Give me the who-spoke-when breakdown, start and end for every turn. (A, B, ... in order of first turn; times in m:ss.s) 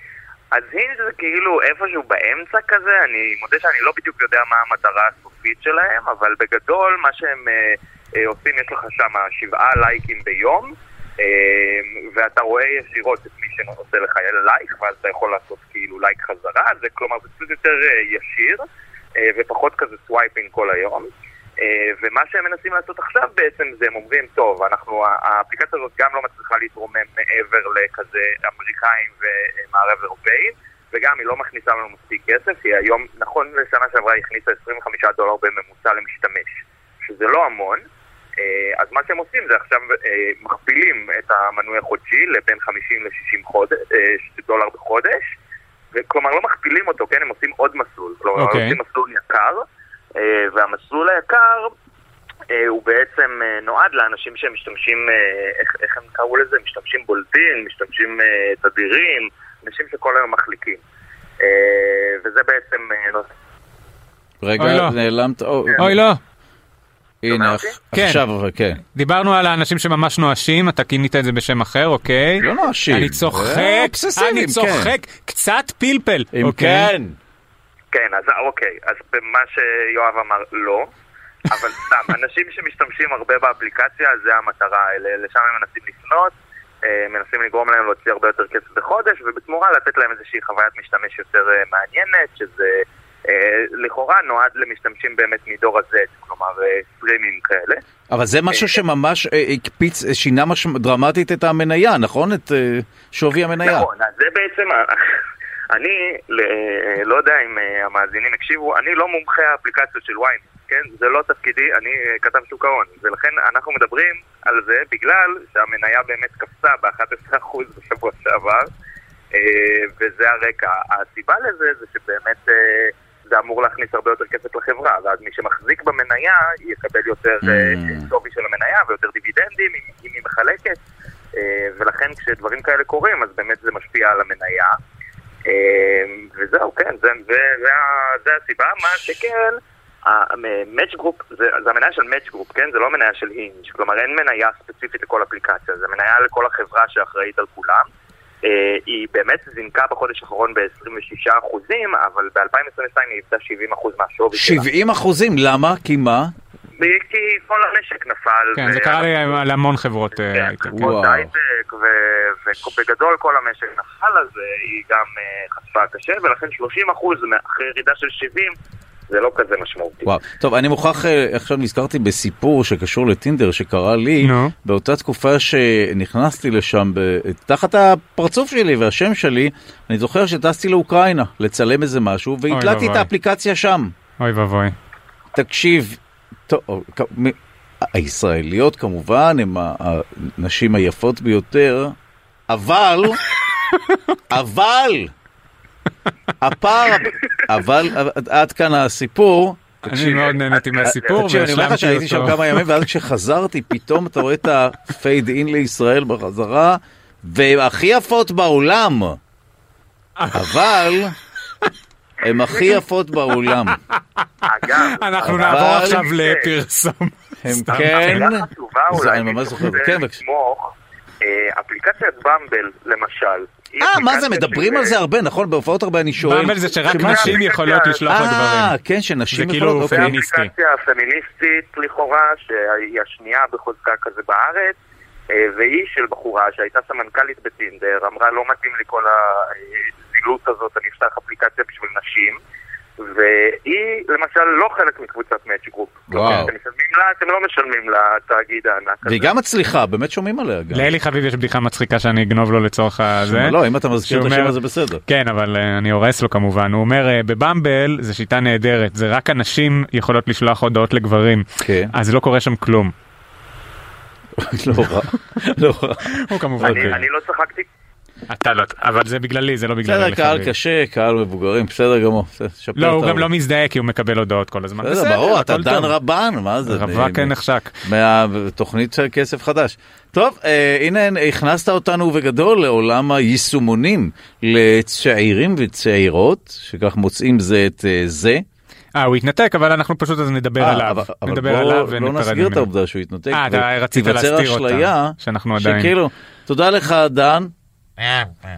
0:00.5-0:18.6 A
0:19.2-0:37.8 A
0:38.4-0:45.3 A
0:45.9-0:49.6 A
0:48.4-0:48.8 B
0:50.2-0:51.7 A
0:52.5-1:00.8 A
1:01.4-1:03.3 A
1:04.4-1:06.0 C
1:04.6-1:04.9 B
1:05.8-1:06.2 B
1:07.2-1:08.8 C
1:07.3-1:07.8 A
1:07.9-1:08.2 B
1:08.9-1:16.9 B
1:12.4-1:14.9 C
1:16.3-1:17.2 C
1:17.9-1:20.9 A
1:21.5-1:37.8 A
1:38.1-1:43.9 C
1:38.5-1:38.8 A
1:43.6-1:45.0 A
1:45.7-1:58.7 A
1:59.3-2:10.8 A
2:07.4-2:08.1 C
2:11.4-2:14.7 A
2:15.5-2:27.9 A
2:28.4-2:34.7 A
2:34.3-2:36.3 C
2:36.8-2:39.4 A
2:38.5-2:40.9 B
2:40.3-2:48.5 A
2:40.7-2:41.3 C
2:49.1-2:50.1 A
2:50.0-3:03.9 C
2:54.2-2:54.5 B
3:02.5-3:03.1 B
3:04.2-3:04.7 B
3:05.3-3:12.0 C
3:12.5-3:13.2 C
3:14.3-3:15.1 C
3:16.4-3:29.2 C
3:19.8-3:22.8 B
3:20.2-3:21.2 A
3:30.2-3:30.6 B
3:30.3-3:31.2 C
3:32.2-3:33.8 C
3:34.4-3:36.5 A
3:34.7-3:38.3 B
3:35.2-3:36.0 C
3:37.4-3:40.2 C
3:37.9-3:45.0 A
3:43.8-3:47.4 C
3:46.2-3:48.7 B
3:46.8-3:48.0 A
3:48.1-3:50.2 C
3:49.3-3:50.5 B
3:49.8-3:54.8 A
3:55.3-4:02.4 A
4:03.0-4:09.3 A
4:06.1-4:06.5 C
4:06.2-4:06.5 B
4:09.0-4:10.9 C
4:10.7-4:22.9 B
4:13.2-4:15.0 C
4:21.6-4:21.9 C
4:24.4-4:27.0 C
4:26.1-4:27.0 B
4:26.6-4:27.7 A
4:28.3-4:30.5 B
4:29.8-4:33.3 C
4:32.8-4:35.9 B
4:34.8-4:48.4 C
4:36.6-4:37.7 B
4:48.9-4:52.7 B
4:50.6-4:57.5 C
4:53.3-4:55.9 B